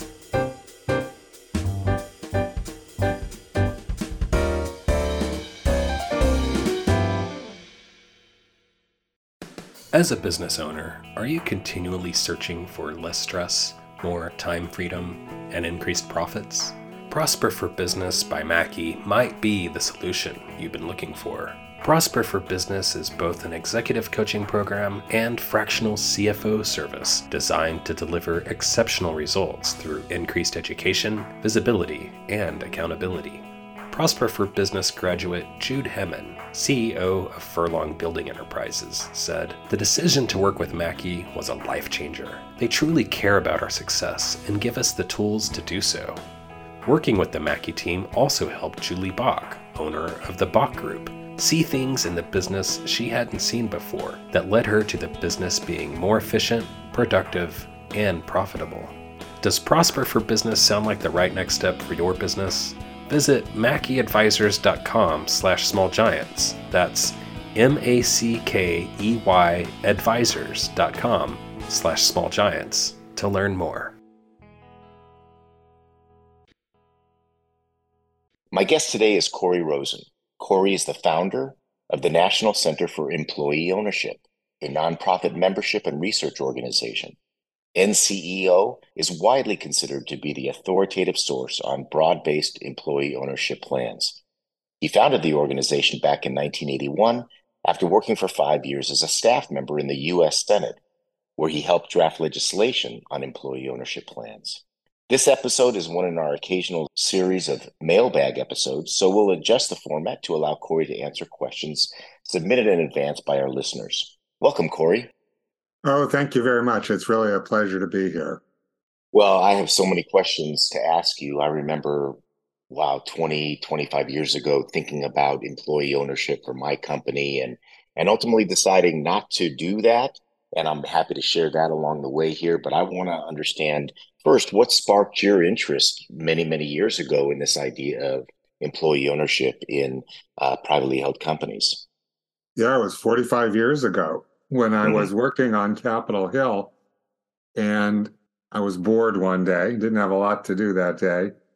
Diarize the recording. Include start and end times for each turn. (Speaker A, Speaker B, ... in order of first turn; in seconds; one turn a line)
Speaker A: 9.9-46.2
Speaker A: 46.8-73.9
Speaker B: 78.5-87.2
Speaker B: 87.8-94.2
Speaker B: 94.8-100.8
Speaker B: 101.4-115.1
Speaker C: 115.8-118.4
Speaker B: 119.1-122.2
Speaker B: 122.7-141.8
Speaker C: 142.6-146.7
Speaker B: 144.8-145.1
Speaker C: 147.6-151.3